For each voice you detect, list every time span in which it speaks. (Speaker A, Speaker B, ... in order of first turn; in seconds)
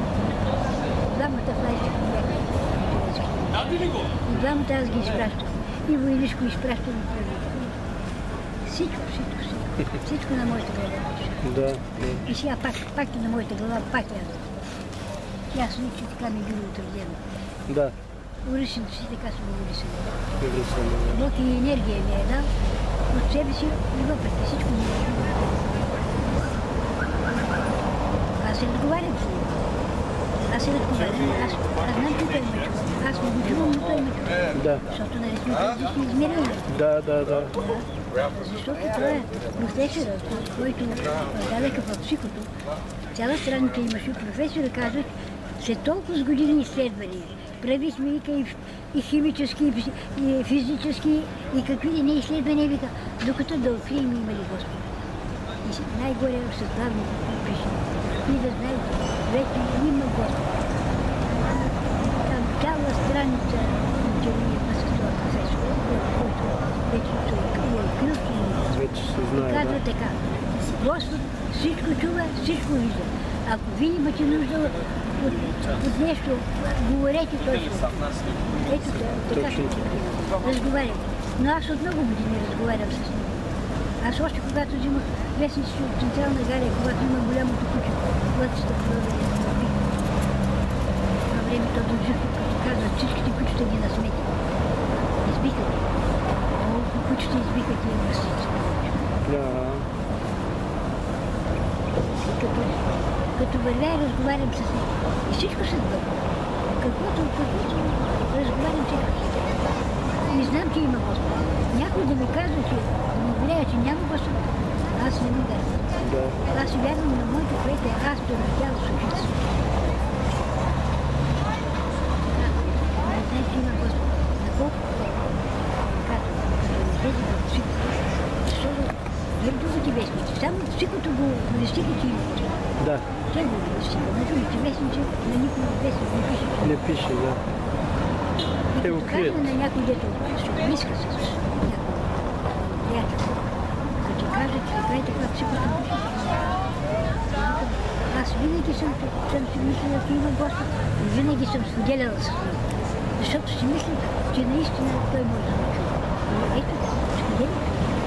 Speaker A: 1.0-7.8, 8.6-11.4, 12.2-14.5, 15.5-17.2, 18.4-20.1, 21.1-22.5, 23.1-25.7, 28.4-29.7, 30.5-36.8, 37.6-42.5, 43.1-54.8, 55.6-60.5, 61.4-68.7, 69.3-83.4, 84.0-89.8, 91.3-94.3, 95.2-95.8, 96.5-99.1, 102.2-109.5, 110.3-115.9, 116.4-119.5, 122.3-125.1, 125.8-127.8, 128.4-132.6, 133.3-136.8, 138.7-143.4, 144.0-146.7, 147.2-152.7, 153.2-157.8
Speaker B: 11.4-12.2, 17.7-17.9, 20.4-21.2, 34.5-34.8, 36.7-37.5, 68.7-69.8, 79.3-80.3, 99.2-99.9, 116.0-116.4, 132.8-133.1, 136.6-137.4, 138.8-139.5